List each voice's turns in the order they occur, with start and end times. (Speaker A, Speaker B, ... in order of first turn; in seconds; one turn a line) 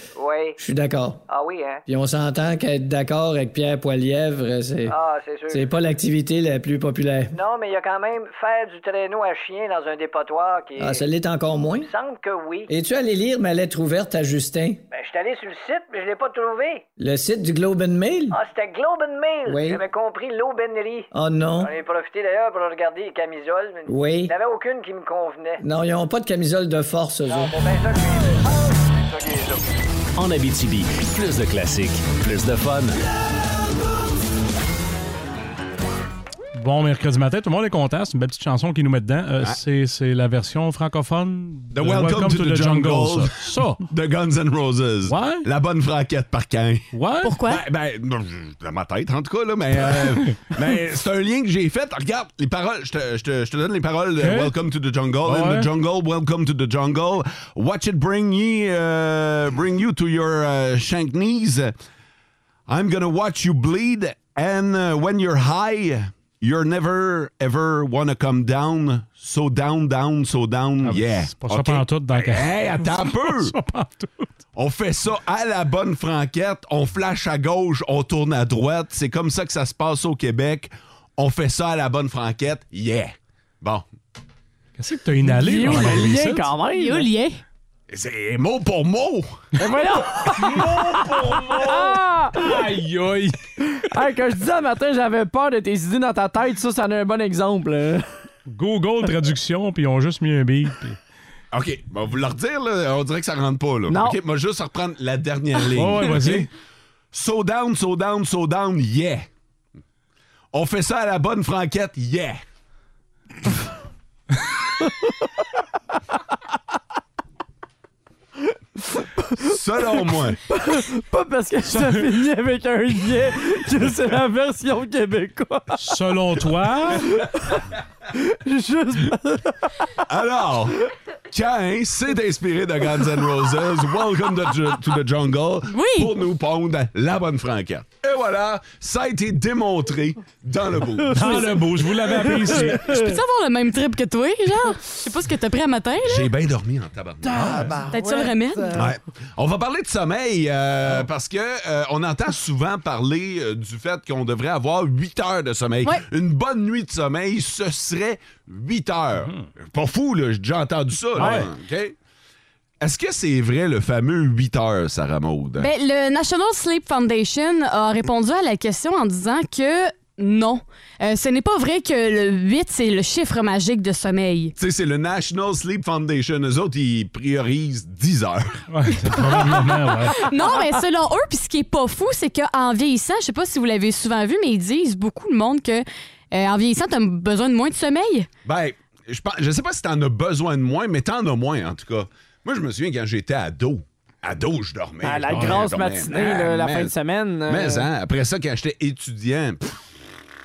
Speaker A: 0.1-0.6
Speaker B: 0.6-1.2
Speaker A: 1.3-1.8
Speaker B: 1.9-5.0
Speaker A: 4.9-5.7
Speaker B: 5.5-7.3
Speaker A: 7.3-10.9
Speaker B: 10.8-11.9
Speaker A: 11.9-12.7
Speaker B: 12.7-14.8
Speaker A: 14.9-16.8
Speaker B: 17.0-18.4
Speaker A: 18.3-21.1
Speaker B: 19.4-19.8
Speaker B: 21.1-21.7
Speaker A: 21.6-25.6
Speaker B: 23.9-24.3
Speaker B: 25.6-27.5
Speaker A: 27.3-28.3
Speaker A: 29.0-29.6
Speaker C: 30.1-33.0
Speaker D: 36.5-43.8
Speaker E: 41.7-61.7
Speaker D: 45.0-45.5
Speaker D: 46.9-47.4
Speaker F: 47.2-47.6
Speaker D: 54.2-54.5
Speaker D: 55.2-55.7
Speaker E: 62.7-73.5
Speaker D: 70.8-74.3
Speaker E: 74.5-83.8
Speaker D: 84.8-86.5
Speaker G: 85.3-87.1
Speaker F: 86.7-87.4
Speaker E: 87.9-89.4
Speaker G: 89.6-92.6
Speaker D: 90.4-93.4
Speaker G: 93.7-98.0
Speaker D: 98.5-101.0
Speaker E: 101.5-106.5
Speaker G: 103.9-104.2
Speaker D: 105.7-106.5
Speaker E: 107.1-109.3
Speaker E: 110.5-112.4
Speaker G: 118.5-119.4
Speaker E: 119.4-120.4
Speaker G: 120.5-126.0
Speaker D: 121.7-122.1
Speaker D: 125.8-127.2
Speaker G: 127.1-127.6
Speaker G: 128.1-129.6
Speaker E: 130.1-130.8
Speaker E: 131.3-141.6
Speaker F: 135.7-136.1
Speaker D: 141.1-143.0
Speaker G: 142.0-142.8
Speaker F: 142.8-146.3
Speaker E: 146.0-147.8
Speaker G: 147.4-148.8
Speaker F: 147.9-148.8
Speaker E: 148.7-161.9
Speaker D: 161.2-161.5
Speaker E: 162.8-165.7
Speaker F: 165.6-174.5
Speaker E: 174.6-178.6
Speaker D: 178.7-180.2
Speaker F: 179.1-179.5
Speaker F: 180.1-188.3
Speaker E: 188.4-196.9
Speaker G: 195.0-197.9
Speaker D: 195.3-195.7
Speaker E: 197.5-199.8